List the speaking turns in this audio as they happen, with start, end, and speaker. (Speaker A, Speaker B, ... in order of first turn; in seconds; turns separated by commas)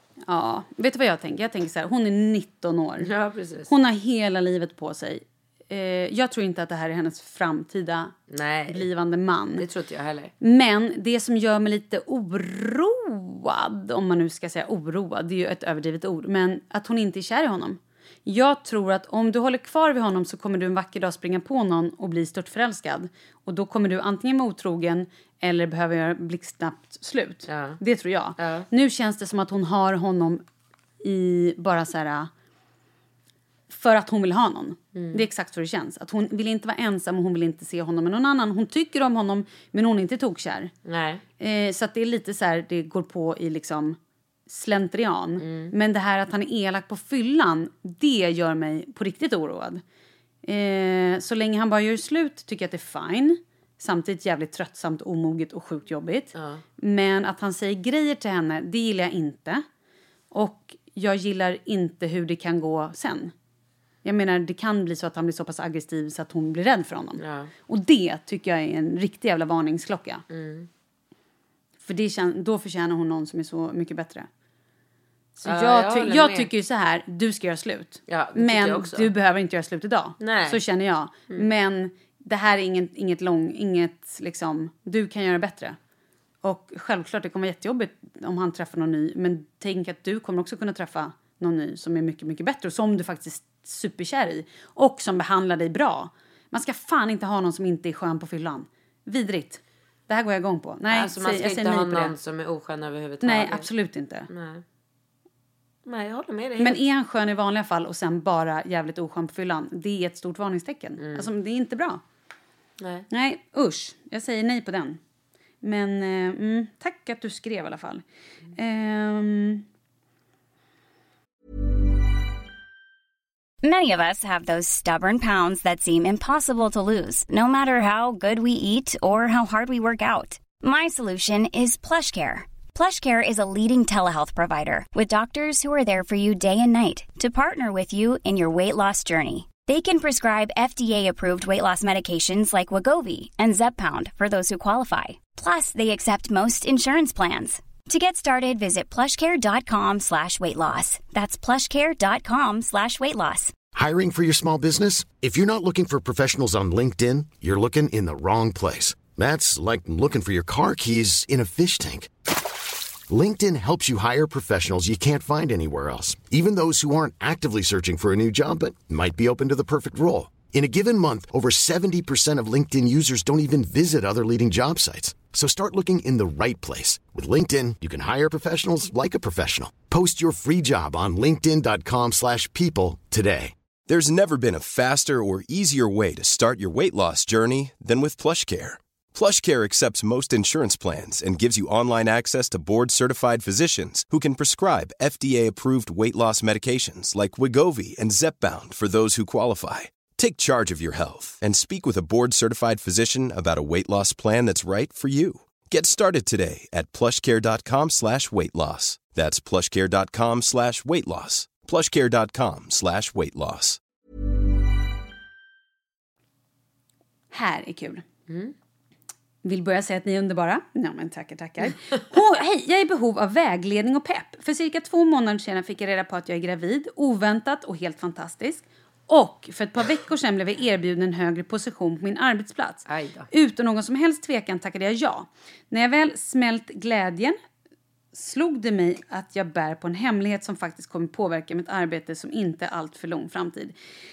Speaker A: 0.2-3.1, Speaker B: 3.0-3.7, Speaker A: 3.7-8.1, Speaker B: 8.3-8.9, Speaker A: 8.7-9.7, Speaker B: 9.6-10.3, Speaker A: 10.4-30.4, Speaker B: 27.5-27.8, Speaker B: 28.4-28.7, Speaker A: 31.0-32.3, Speaker A: 33.7-40.7, Speaker B: 34.9-35.2, Speaker B: 40.9-41.2, Speaker A: 41.4-44.0, Speaker A: 44.5-49.8, Speaker B: 45.4-45.7, Speaker A: 50.4-59.6, Speaker B: 56.3-56.6, Speaker A: 60.3-63.3, Speaker A: 64.0-70.2, Speaker B: 67.2-67.5, Speaker B: 70.3-70.7, Speaker A: 71.8-74.3, Speaker A: 75.4-85.8, Speaker B: 75.4-76.5, Speaker B: 78.1-79.1, Speaker B: 80.2-80.6, Speaker A: 86.4-102.1, Speaker B: 100.9-103.7, Speaker A: 103.2-104.3, Speaker B: 104.3-104.6, Speaker B: 105.8-106.8, Speaker A: 106.6-112.0, Speaker B: 111.0-111.3, Speaker B: 112.8-113.0, Speaker A: 113.1-115.0, Speaker A: 115.6-118.0, Speaker A: 118.5-119.6, Speaker C: 123.6-153.5, Speaker D: 153.7-162.1, Speaker D: 163.1-183.5, Speaker E: 183.9-213.8, Speaker A: 217.3-218.0, Speaker B: 218.3-218.5, Speaker A: 219.4-237.3, Speaker B: 232.9-233.3, Speaker A: 238.1-243.7